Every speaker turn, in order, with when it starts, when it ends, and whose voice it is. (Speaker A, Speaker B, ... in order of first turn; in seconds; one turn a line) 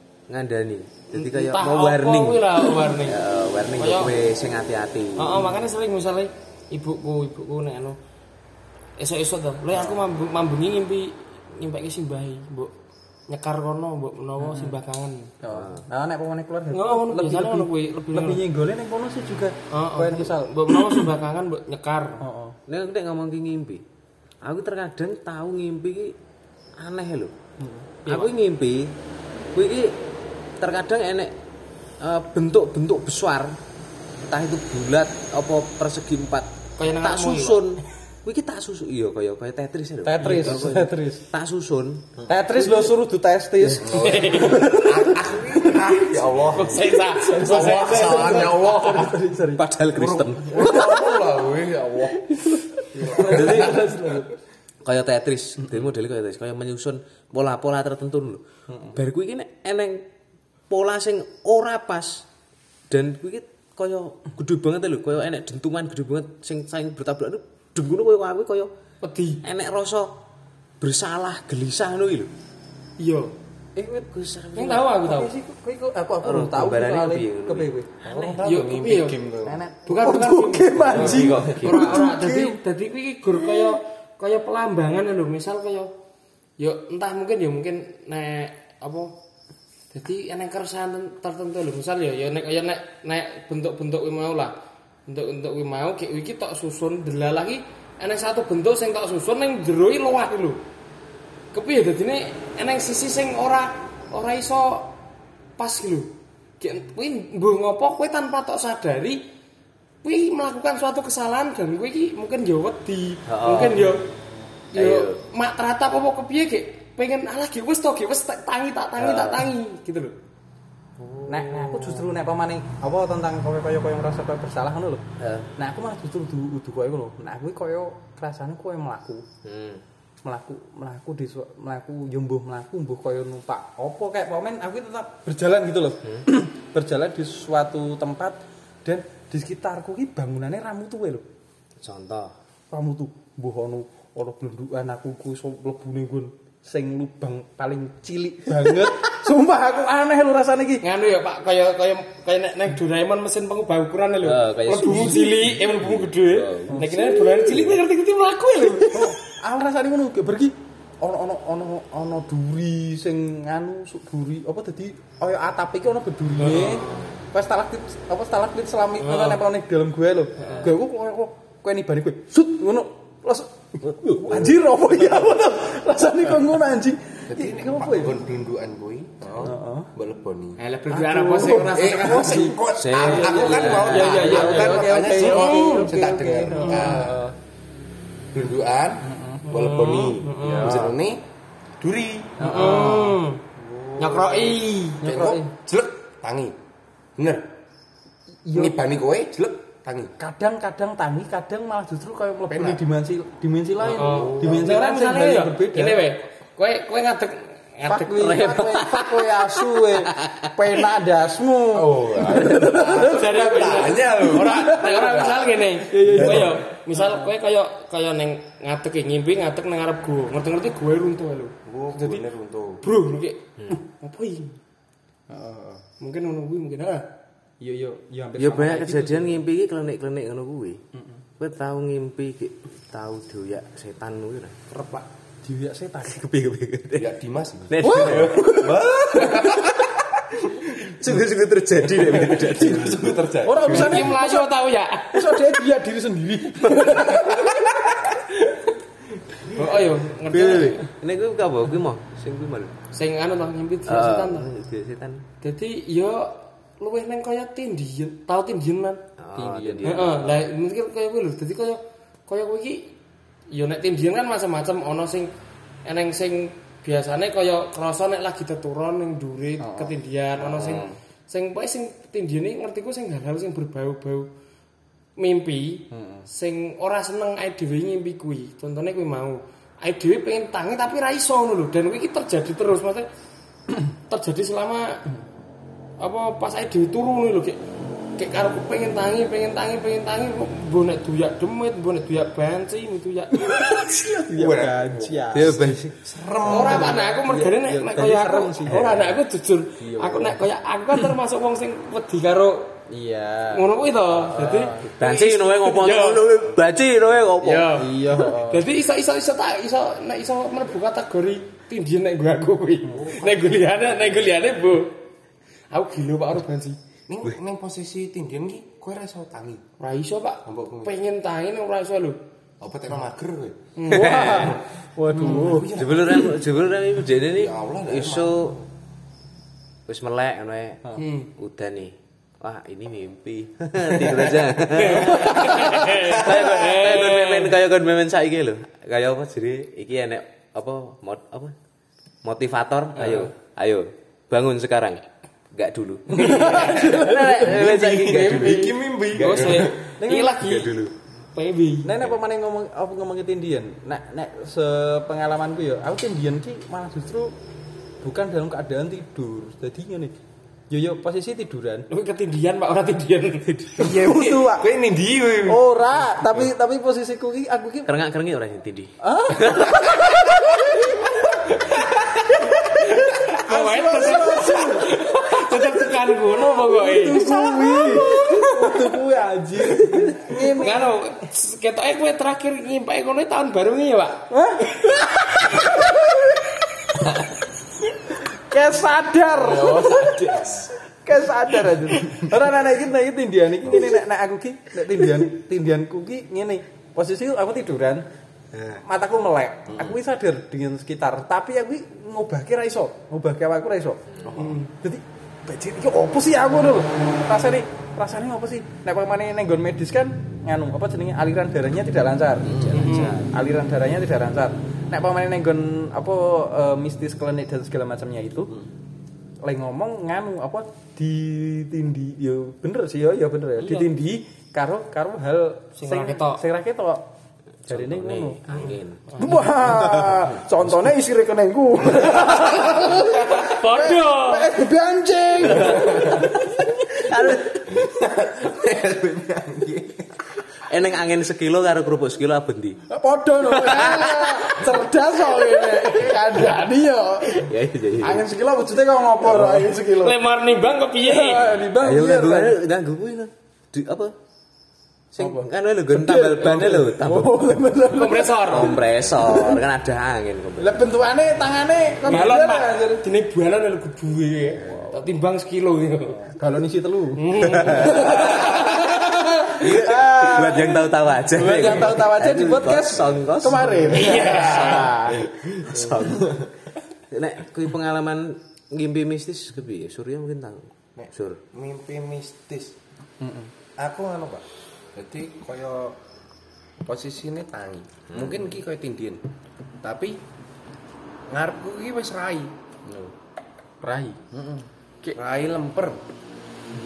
Speaker A: 0.3-5.5
Speaker B: 1.1-3.2
Speaker B: 3.8-4.1
Speaker B: 5.2-8.0
Speaker B: 9.0-12.7
Speaker B: 13.3-15.3
Speaker C: 14.4-14.7
Speaker C: 15.4-21.1
Speaker A: 15.5-15.9
Speaker B: 16.7-18.4
Speaker B: 19.7-22.2
Speaker C: 22.2-22.6
Speaker A: 22.7-23.8
Speaker A: 24.4-26.1
Speaker A: 26.8-27.3
Speaker C: 27.6-27.9
Speaker B: 28.1-28.3
Speaker A: 28.1-28.9
Speaker A: 29.6-30.0
Speaker A: 30.6-31.3
Speaker A: 32.0-33.6
Speaker A: 34.3-42.1
Speaker B: 36.8-37.6
Speaker C: 40.0-41.2
Speaker B: 40.2-40.5
Speaker C: 42.3-46.0
Speaker D: 43.8-49.2
Speaker B: 43.9-44.9
Speaker B: 46.5-48.8
Speaker C: 47.2-49.6
Speaker A: 49.6-51.0
Speaker D: 49.9-53.9
Speaker C: 50.6-51.1
Speaker C: 52.9-54.3
Speaker A: 53.2-53.7
Speaker A: 54.8-60.0
Speaker C: 58.7-59.0
Speaker A: 60.7-62.2
Speaker A: 62.9-68.7
Speaker B: 69.0-69.4
Speaker A: 69.4-70.1
Speaker A: 70.8-72.3
Speaker B: 73.0-73.3
Speaker C: 73.8-74.1
Speaker A: 74.1-74.9
Speaker B: 74.5-75.3
Speaker C: 74.7-78.2
Speaker A: 76.2-78.4
Speaker D: 78.0-79.6
Speaker B: 78.4-79.2
Speaker C: 79.5-82.6
Speaker B: 79.9-85.9
Speaker A: 80.9-82.0
Speaker D: 81.0-81.7
Speaker B: 86.6-89.1
Speaker B: 89.9-94.5
Speaker B: 95.1-100.6
Speaker B: 101.5-104.9
Speaker B: 105.6-109.2
Speaker B: 110.0-114.0
Speaker A: 113.3-114.0
Speaker B: 114.7-120.2
Speaker A: 114.8-115.2
Speaker A: 119.0-119.5
Speaker A: 121.0-122.2
Speaker C: 121.3-125.0
Speaker A: 125.2-125.5
Speaker C: 125.6-129.2
Speaker A: 129.4-129.8
Speaker C: 130.2-141.3
Speaker A: 141.8-142.3
Speaker C: 142.7-150.8
Speaker B: 150.8-159.2
Speaker A: 154.2-157.8
Speaker C: 158.9-178.2
Speaker B: 166.4-167.1
Speaker A: 166.5-166.9
Speaker B: 169.0-169.4
Speaker A: 170.4-170.7
Speaker B: 170.4-170.7
Speaker D: 177.3-180.6
Speaker C: 179.4-179.9
Speaker B: 180.6-182.4
Speaker C: 180.9-187.3
Speaker D: 181.7-187.3
Speaker A: 182.8-184.7
Speaker B: 183.1-185.9
Speaker B: 186.5-187.0
Speaker D: 188.3-191.2
Speaker C: 189.0-189.5
Speaker B: 189.5-190.8
Speaker A: 190.4-191.0
Speaker D: 191.8-193.0
Speaker C: 192.4-193.2
Speaker B: 192.4-193.4
Speaker D: 193.6-196.6
Speaker B: 194.0-195.0
Speaker C: 195.0-195.5
Speaker D: 197.2-197.5
Speaker C: 198.5-198.8
Speaker D: 198.5-200.1
Speaker C: 200.2-206.0
Speaker D: 202.5-202.8
Speaker B: 203.9-208.8
Speaker D: 204.0-204.7
Speaker C: 207.9-217.3
Speaker A: 208.4-210.5
Speaker D: 211.7-215.1
Speaker B: 212.2-222.2
Speaker D: 216.0-216.6
Speaker D: 221.7-222.8
Speaker B: 222.8-224.6
Speaker C: 225.3-225.8
Speaker B: 226.0-227.1
Speaker C: 227.6-229.4
Speaker A: 228.4-230.8
Speaker A: 231.4-234.6
Speaker D: 234.7-235.0
Speaker C: 235.4-236.3
Speaker A: 236.1-237.1
Speaker D: 237.0-239.9
Speaker A: 237.7-239.9
Speaker C: 237.8-238.4
Speaker A: 240.8-244.0
Speaker D: 241.8-244.1
Speaker C: 243.4-244.5
Speaker B: 243.7-245.4
Speaker C: 245.1-248.6
Speaker B: 249.5-250.9
Speaker C: 250.3-250.9
Speaker A: 251.0-252.8
Speaker B: 252.9-254.5
Speaker A: 253.9-255.2
Speaker B: 255.4-259.0
Speaker A: 259.2-260.4
Speaker C: 259.4-260.0
Speaker B: 259.8-262.9
Speaker B: 263.5-265.3
Speaker B: 265.9-274.3
Speaker C: 269.6-271.0
Speaker B: 275.2-283.1
Speaker C: 275.9-276.3
Speaker B: 284.1-285.0
Speaker B: 286.0-287.6
Speaker B: 288.2-293.5
Speaker C: 293.3-295.8
Speaker D: 293.9-297.2
Speaker A: 295.3-295.9
Speaker B: 296.4-302.8
Speaker C: 296.5-298.8
Speaker A: 298.7-299.1
Speaker C: 300.0-300.4
Speaker C: 302.9-303.7
Speaker B: 303.5-306.3
Speaker C: 304.3-304.9
Speaker A: 305.0-307.8
Speaker B: 307.4-315.0
Speaker C: 307.7-308.7
Speaker D: 312.9-313.5
Speaker B: 315.7-316.8
Speaker D: 317.1-319.6
Speaker B: 319.8-322.2
Speaker D: 320.4-320.9
Speaker D: 322.6-323.6
Speaker B: 323.8-324.4
Speaker C: 323.9-325.7
Speaker A: 323.9-324.6
Speaker D: 325.1-326.4
Speaker B: 325.2-325.6
Speaker A: 325.7-328.6
Speaker D: 327.3-328.6
Speaker A: 329.9-341.6
Speaker B: 331.0-331.3
Speaker B: 334.8-337.5
Speaker C: 335.2-335.7
Speaker A: 342.2-345.0
Speaker C: 343.0-343.3
Speaker A: 345.5-349.7
Speaker C: 346.1-348.6
Speaker D: 346.3-349.9
Speaker B: 349.2-350.7
Speaker C: 350.0-350.5
Speaker A: 350.4-350.9
Speaker B: 351.3-352.0
Speaker C: 351.9-357.3
Speaker C: 358.0-360.1
Speaker C: 360.7-361.9
Speaker B: 361.9-363.8
Speaker C: 363.8-364.7
Speaker D: 363.9-365.6
Speaker C: 365.5-367.9
Speaker A: 367.9-370.3
Speaker C: 369.0-371.4
Speaker B: 371.7-378.5
Speaker C: 372.8-375.0
Speaker C: 376.6-380.9
Speaker B: 380.6-384.2
Speaker C: 384.3-386.4
Speaker C: 388.3-398.1
Speaker A: 389.5-390.6
Speaker B: 389.6-390.5
Speaker C: 398.8-404.0
Speaker D: 404.3-404.6
Speaker B: 404.4-404.7
Speaker C: 404.7-418.5
Speaker D: 412.5-413.0
Speaker B: 412.7-413.2
Speaker C: 419.4-427.1
Speaker B: 423.6-423.9
Speaker B: 425.8-426.4
Speaker A: 427.7-430.3
Speaker C: 427.7-437.6
Speaker B: 428.6-429.4
Speaker B: 432.9-434.6
Speaker A: 435.5-436.3
Speaker D: 435.5-436.3
Speaker A: 436.9-437.9
Speaker D: 437.7-440.2
Speaker A: 440.5-442.8
Speaker C: 442.9-450.2
Speaker A: 443.6-444.7
Speaker A: 447.4-448.3
Speaker B: 449.3-451.6
Speaker C: 451.0-452.6
Speaker A: 451.8-454.1
Speaker A: 455.1-457.7
Speaker C: 455.2-459.6
Speaker B: 457.9-458.8
Speaker A: 458.5-460.8
Speaker C: 460.6-463.0
Speaker B: 462.1-466.3
Speaker C: 464.7-464.9
Speaker C: 466.3-475.9
Speaker B: 467.2-468.0
Speaker A: 467.5-468.8
Speaker A: 469.5-476.5
Speaker B: 473.9-475.0
Speaker D: 476.0-476.4
Speaker A: 477.1-481.4
Speaker D: 481.0-482.8
Speaker C: 483.2-483.5
Speaker D: 483.8-486.0
Speaker D: 486.8-489.2
Speaker A: 488.1-488.5
Speaker D: 489.8-490.2
Speaker D: 491.3-493.1
Speaker C: 493.8-494.2
Speaker D: 494.3-496.0